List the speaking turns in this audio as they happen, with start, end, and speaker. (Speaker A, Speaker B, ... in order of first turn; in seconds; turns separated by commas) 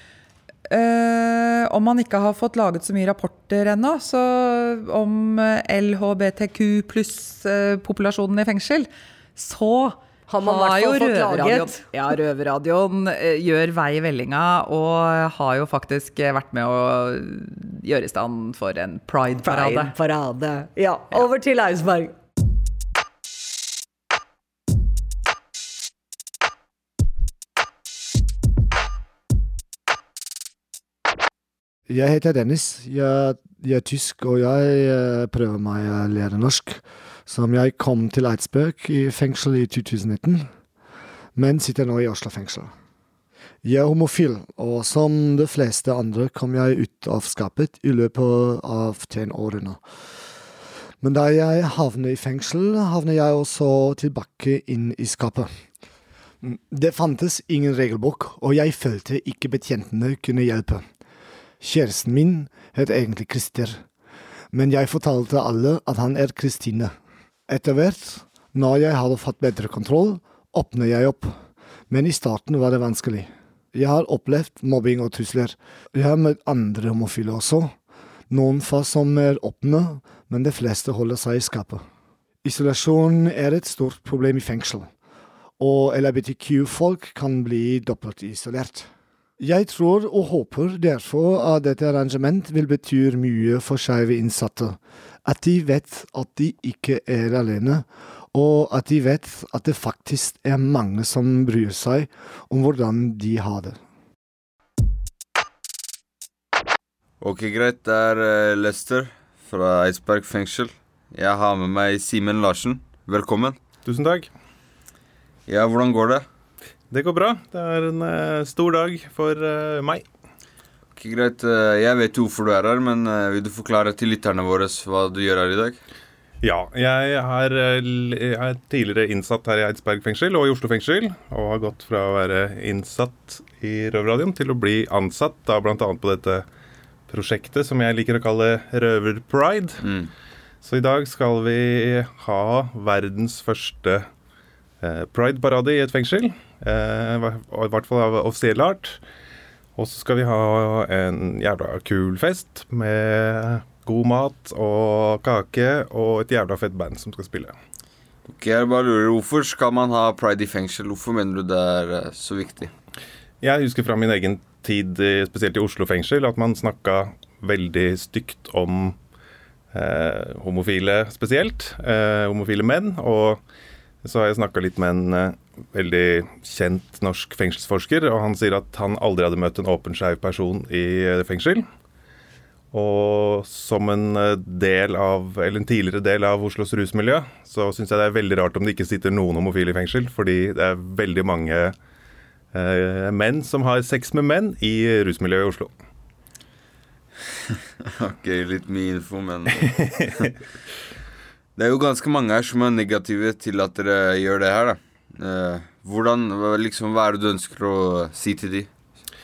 Speaker A: 0.7-19.9, Speaker B: 10.3-11.8, Speaker B: 19.4-22.1, Speaker C: 31.9-40.5, Speaker C: 41.4-42.7, Speaker C: 43.6-49.8, Speaker C: 51.0-55.5, Speaker C: 56.4-60.9, Speaker C: 61.6-63.9, Speaker C: 64.5-66.9, Speaker C: 67.5-77.8, Speaker C: 78.3-81.8, Speaker C: 82.4-84.9, Speaker C: 85.6-103.8, Speaker D: 107.2-113.6, Speaker E: 113.8-114.3, Speaker D: 115.5-116.2, Speaker E: 116.9-120.0, Speaker D: 121.0-125.8, Speaker E: 126.4-136.5, Speaker E: 137.1-139.8, Speaker D: 139.8-140.1, Speaker E: 140.6-144.1, Speaker E: 144.8-149.0, Speaker E: 149.8-157.6, Speaker D: 158.3-162.7, Speaker E: 163.4-169.0, Speaker E: 169.7-173.4, Speaker E: 174.0-181.7, Speaker E: 182.7-191.8, Speaker E: 192.5-195.7, Speaker D: 197.8-200.0, Speaker E: 199.7-200.0, Speaker D: 201.6-208.7